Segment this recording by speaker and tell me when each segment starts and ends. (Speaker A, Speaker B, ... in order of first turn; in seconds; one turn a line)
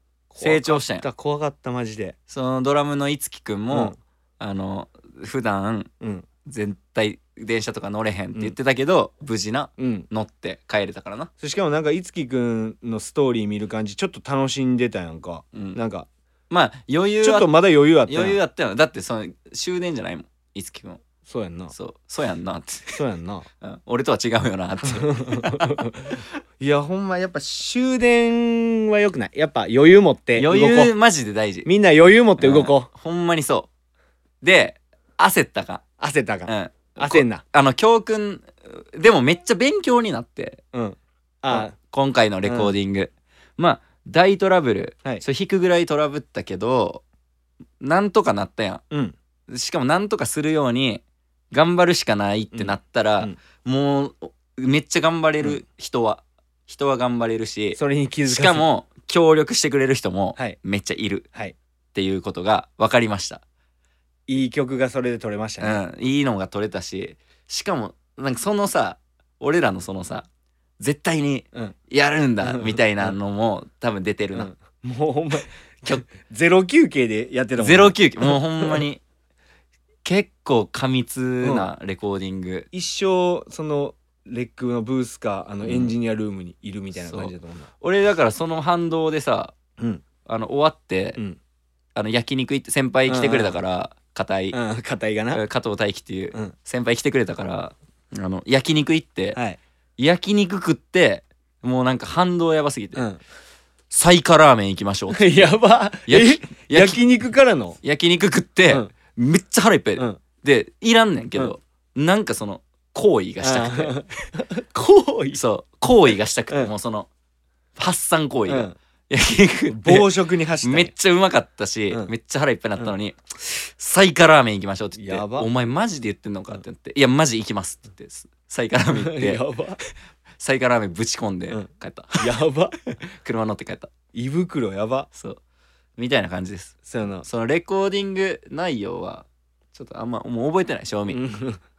Speaker A: 0.3-2.1
Speaker B: 0.4-1.1
Speaker B: 2.3-5.9
Speaker A: 3.7-4.0
Speaker A: 6.0-6.3
Speaker B: 6.5-11.3
Speaker A: 9.8-10.1
Speaker A: 11.4-16.1
Speaker B: 16.5-21.0
Speaker A: 17.2-18.4
Speaker A: 21.3-21.7
Speaker B: 21.7-23.0
Speaker A: 22.9-23.5
Speaker B: 23.6-25.9
Speaker A: 24.8-30.9
Speaker B: 30.4-31.7
Speaker A: 31.7-32.9
Speaker B: 32.4-33.7
Speaker B: 34.4-35.8
Speaker A: 36.0-37.4
Speaker B: 36.5-40.6
Speaker A: 40.7-41.7
Speaker B: 41.5-47.0
Speaker A: 42.5-42.7
Speaker B: 47.8-48.8
Speaker B: 49.5-61.3
Speaker A: 52.5-53.4
Speaker A: 57.8-58.6
Speaker B: 61.9-63.4
Speaker A: 64.3-65.8
Speaker B: 65.6-70.3
Speaker B: 70.8-74.5
Speaker A: 72.4-73.1
Speaker A: 74.3-78.8
Speaker B: 77.6-79.0
Speaker B: 80.0-82.7
Speaker A: 81.4-81.7
Speaker A: 82.7-87.7
Speaker B: 85.6-85.9
Speaker B: 87.0-89.5
Speaker B: 90.2-91.2
Speaker B: 92.0-94.6
Speaker A: 93.1-93.6
Speaker A: 94.5-95.4
Speaker B: 95.3-99.4
Speaker B: 100.0-103.1
Speaker B: 103.9-107.0
Speaker A: 105.1-107.8
Speaker B: 107.8-114.2
Speaker A: 113.4-115.4
Speaker B: 115.3-117.1
Speaker B: 117.8-120.1
Speaker A: 118.5-118.8
Speaker A: 119.7-120.9
Speaker B: 120.6-129.4
Speaker A: 125.0-125.5
Speaker A: 128.9-129.8
Speaker B: 130.4-132.4
Speaker A: 132.2-132.8
Speaker B: 133.0-133.9
Speaker A: 134.1-135.1
Speaker B: 135.1-135.4
Speaker B: 136.0-141.2
Speaker A: 136.9-137.3
Speaker A: 141.1-141.6